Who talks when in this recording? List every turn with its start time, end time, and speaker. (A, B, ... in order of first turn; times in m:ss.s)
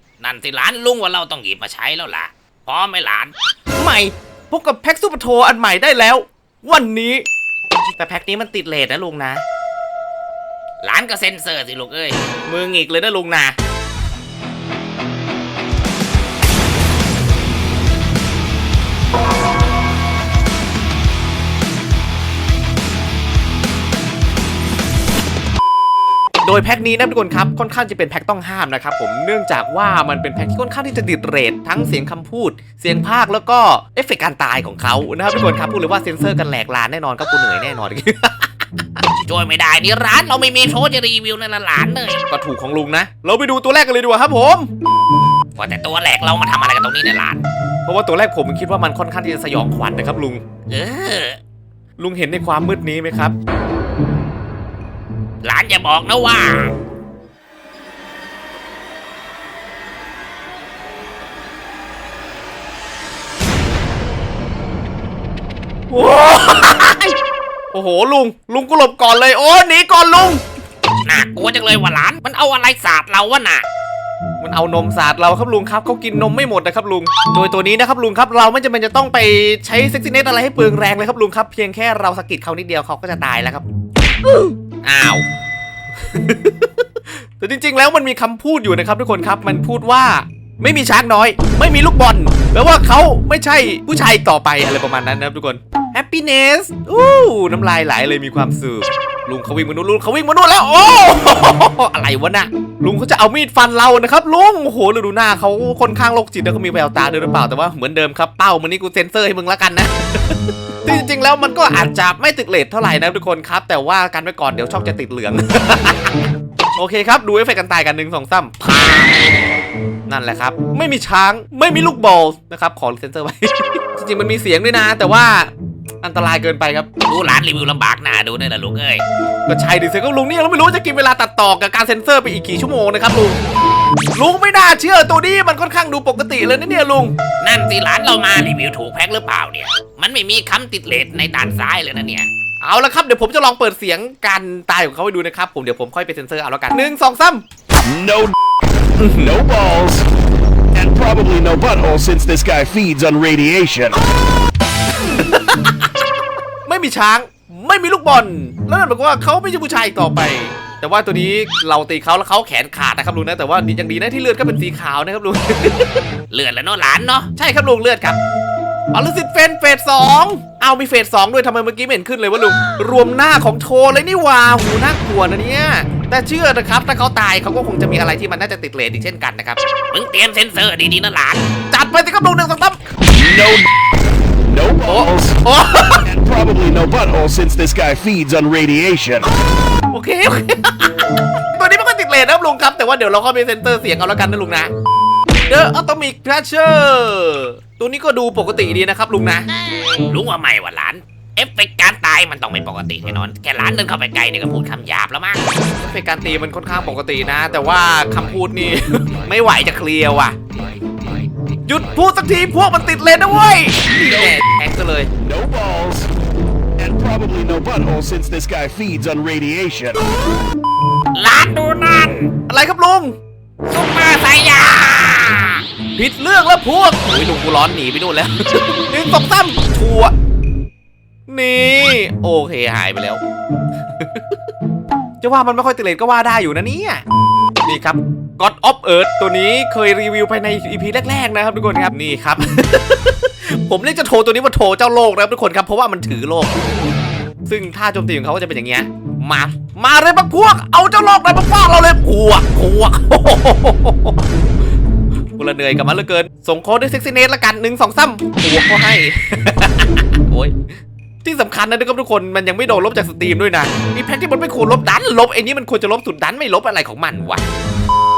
0:00.2-0:03.3 A
0:03.8-0:07.2 B
0:08.0-0:09.4 B
0:10.8-0:12.2 A
0:12.4-0:13.6 B
0:26.4-0:39.0 B
0:39.2-0:42.2 A
0:42.3-0:44.7 B
0:45.6-0:47.4 A
0:47.9-0:50.4 B
0:50.7-0:51.4 A
0:52.0-0:53.3 B
0:55.4-0:56.7 A
1:05.9-1:07.2 B
1:07.7-1:10.4 B
1:11.1-1:13.6 A
1:14.4-1:23.6 B
1:24.3-1:25.2 B
1:26.0-1:59.2 B
2:00.1-2:05.5 B
2:06.0-2:06.9 B
2:07.1-2:09.0 A
2:09.5-2:13.4 B
2:14.1-2:17.2 B
2:17.4-2:22.3 A
2:22.6-2:27.4 B
2:27.8-2:28.4 C
2:29.0-2:29.4 B
2:29.2-2:30.1 C
2:30.7-2:34.0 C
2:35.2-2:35.9 B
2:36.6-2:46.0 B
2:46.3-2:47.3 A
2:47.3-2:48.2 B
2:48.9-2:59.6 B
2:59.9-3:01.4 A
3:01.7-3:02.8 B
3:03.1-3:03.7 C
3:04.5-3:05.4 C
3:04.9-3:06.1 B
3:06.0-3:09.3 C
3:09.9-3:14.7 B
3:15.5-3:19.5 B
3:19.8-3:25.4 A
3:25.5-3:30.4 B
3:31.7-3:35.1 B
3:33.9-3:34.4 C
3:35.2-3:36.1 C
3:36.8-3:40.0 C
3:41.2-3:42.3 A
3:42.5-3:43.2 B
3:43.7-3:45.6 A
3:46.0-3:50.1 B
3:51.3-3:53.2 B
3:54.0-3:54.4 B
3:55.2-3:57.0 B
3:57.6-4:06.6 B
4:07.5-4:14.2 B
4:15.3-4:20.6 B
4:21.2-4:27.4 B